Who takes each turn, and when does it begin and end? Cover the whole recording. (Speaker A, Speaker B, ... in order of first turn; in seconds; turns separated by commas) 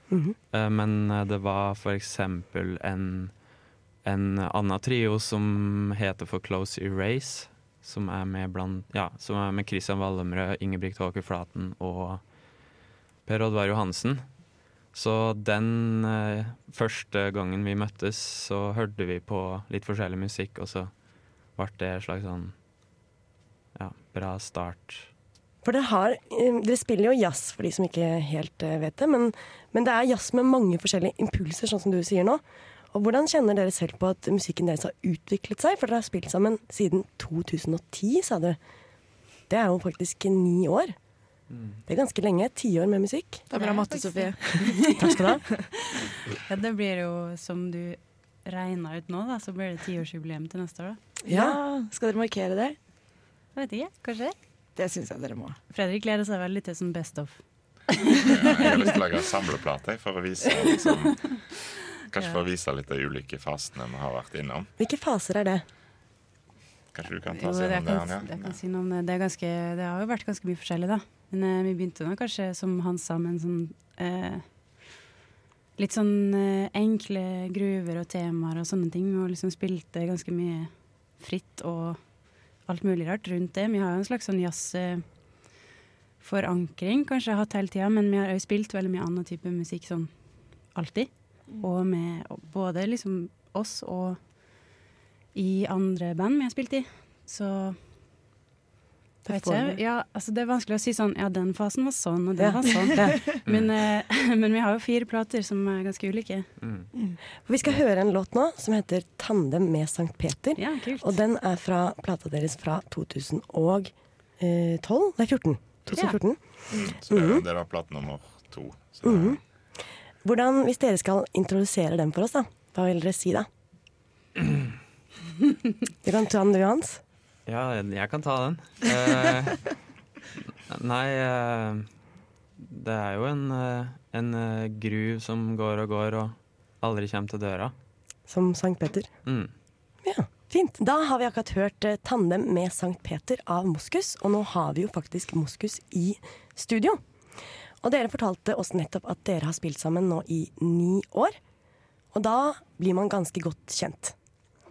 Speaker A: 0.1-0.4, Speaker B: 0.5-3.3, Speaker B: 4.0-12.2, Speaker B: 13.3-14.3, Speaker B: 14.9-20.9, Speaker B: 21.6-22.5, Speaker B: 23.8-25.1, Speaker A: 25.6-38.6, Speaker A: 39.5-41.0, Speaker B: 41.5-41.8, Speaker A: 41.9-43.5, Speaker C: 43.5-45.2, Speaker D: 43.5-45.2, Speaker A: 45.0-45.4, Speaker D: 46.5-51.0, Speaker C: 51.2-52.8, Speaker A: 51.3-51.6, Speaker D: 53.6-54.4, Speaker C: 54.8-55.6, Speaker D: 55.7-57.4, Speaker E: 58.3-61.2, Speaker E: 62.1-64.7, Speaker A: 64.8-65.6, Speaker E: 66.9-68.6, Speaker D: 67.3-74.4, Speaker D: 75.8-82.0, Speaker D: 82.7-85.0, Speaker D: 86.2-90.1, Speaker D: 90.8-94.2, Speaker D: 95.3-97.8, Speaker A: 99.3-99.8, Speaker D: 99.3-106.5, Speaker A: 102.4-103.1, Speaker C: 102.9-103.4, Speaker B: 106.6-106.9, Speaker A: 107.5-117.5, Speaker D: 110.6-111.2, Speaker D: 115.9-116.2, Speaker E: 116.7-119.4, Speaker A: 119.0-119.4, Speaker A: 120.2-123.5, Speaker A: 126.0-127.0, Speaker B: 127.5-129.7, Speaker B: 130.7-131.9, Speaker B: 132.6-137.7, Speaker A: 138.3-139.1, Speaker B: 139.3-139.5, Speaker A: 140.0-147.0, Speaker A: 147.8-151.4, Speaker A: 152.1-154.2